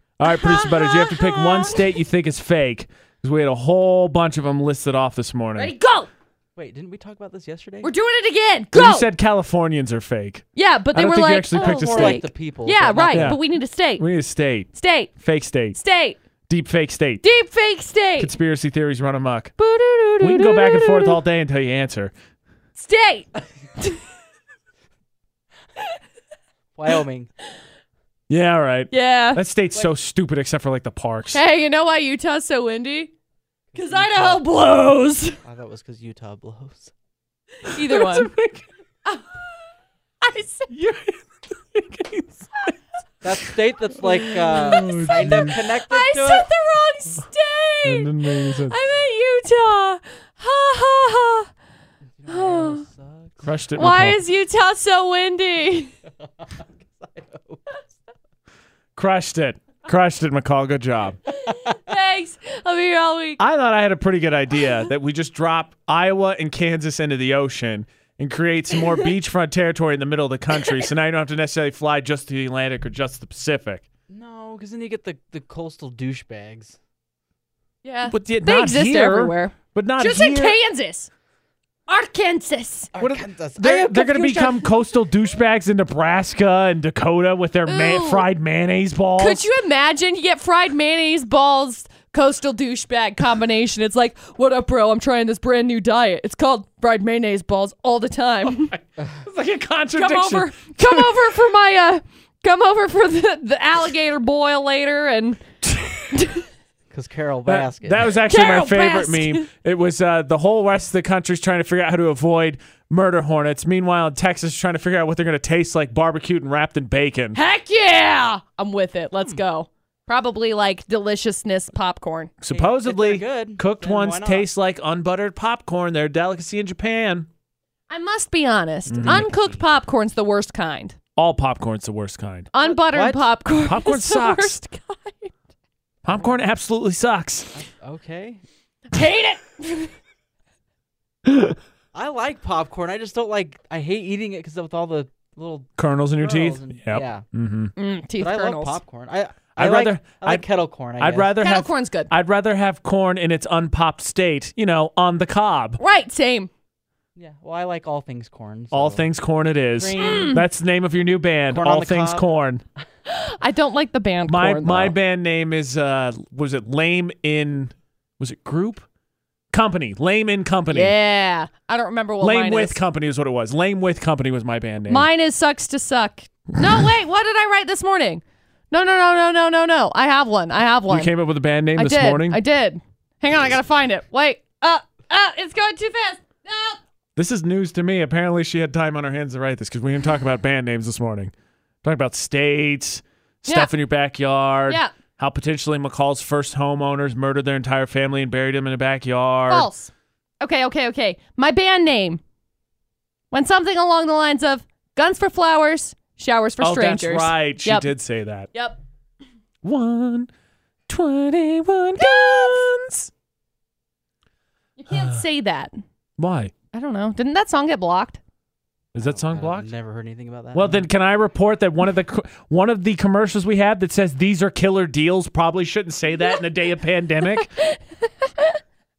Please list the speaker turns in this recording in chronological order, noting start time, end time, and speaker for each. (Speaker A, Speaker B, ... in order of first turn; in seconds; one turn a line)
Speaker A: 0.2-5.7
Speaker B: 0.2-2.0
Speaker B: 5.5-6.1
Speaker C: 6.5-7.9
Speaker B: 7.8-9.1
Speaker A: 8.7-12.2
Speaker B: 10.6-14.0
Speaker C: 11.5-13.4
Speaker A: 13.1-13.4
Speaker A: 14.0-15.8
Speaker B: 14.7-15.1
Speaker B: 15.7-16.2
Speaker A: 16.5-17.2
Speaker B: 17.2-18.3
Speaker A: 18.2-19.5
Speaker B: 19.6-21.2
Speaker A: 20.2-22.1
Speaker B: 22.8-24.0
Speaker C: 26.7-27.3
Speaker A: 28.3-31.4
Speaker B: 28.9-29.4
Speaker B: 31.3-33.1
Speaker C: 33.7-34.5
Speaker B: 33.7-35.4
Speaker C: 35.4-36.9
Speaker B: 37.6-38.3
Speaker A: 37.6-38.7
Speaker B: 39.0-39.5
Speaker B: 40.2-40.7
Speaker A: 40.7-42.8
Speaker C: 43.2-46.5
Speaker A: 43.3-45.6
Speaker B: 44.6-44.9
Speaker B: 45.6-51.5
Speaker A: 47.8-48.8
Speaker C: 52.2-53.5
Speaker B: 52.3-52.9
Speaker A: 53.4-54.2
Speaker B: 53.8-55.9
Speaker C: 56.4-57.6
Speaker A: 58.9-61.2
Speaker B: 61.2-63.4
Speaker A: 63.4-73.8
Speaker B: 64.5-64.8
Speaker B: 70.5-70.8
Speaker C: 74.1-76.8
Speaker B: 77.8-81.1
Speaker A: 78.0-80.6
Speaker B: 81.9-82.9
Speaker C: 82.9-84.5
Speaker A: 83.0-89.5
Speaker B: 84.1-84.7
Speaker B: 87.7-88.3
Speaker B: 89.2-98.7
Speaker A: 98.5-101.4
Speaker B: 99.9-105.4
Speaker A: 105.7-106.0
Speaker B: 106.1-106.5
Speaker C: 106.9-108.2
Speaker A: 107.5-117.4
Speaker B: 108.1-109.5
Speaker B: 117.3-122.3
Speaker A: 122.4-127.3
Speaker C: 122.5-124.5
Speaker B: 127.9-130.9
Speaker A: 128.9-129.3
Speaker C: 129.0-129.5
Speaker A: 131.2-132.5
Speaker B: 132.5-135.3
Speaker C: 132.6-133.3
Speaker A: 133.6-134.6
Speaker A: 136.0-137.6
Speaker C: 137.5-138.4
Speaker B: 138.9-139.9
Speaker A: 141.3-141.6
Speaker C: 141.9-147.2
Speaker A: 145.8-147.7
Speaker B: 147.8-148.8
Speaker C: 148.2-151.3
Speaker A: 149.6-150.4
Speaker A: 151.0-155.8
Speaker B: 151.4-152.1
Speaker B: 155.8-156.5
Speaker C: 157.2-159.1
Speaker A: 158.7-162.6
Speaker C: 159.8-160.4
Speaker B: 160.0-160.4
Speaker C: 161.5-162.3
Speaker B: 163.1-164.9
Speaker A: 164.2-168.8
Speaker A: 169.5-170.9
Speaker B: 170.7-172.8
Speaker A: 172.2-175.1
Speaker B: 174.9-181.1
Speaker A: 180.9-182.4
Speaker B: 181.7-186.8
Speaker A: 187.2-191.3
Speaker A: 191.8-199.7
Speaker B: 193.4-193.7
Speaker B: 199.5-202.2
Speaker B: 203.3-207.9
Speaker A: 206.6-208.5
Speaker B: 208.5-208.8
Speaker A: 209.6-210.3
Speaker A: 210.9-213.1
Speaker B: 212.0-212.7
Speaker B: 214.8-215.8
Speaker A: 214.9-215.2
Speaker A: 216.2-216.5
Speaker B: 216.7-218.2
Speaker A: 218.9-219.7
Speaker C: 219.0-220.9
Speaker A: 220.5-227.5
Speaker B: 227.2-228.6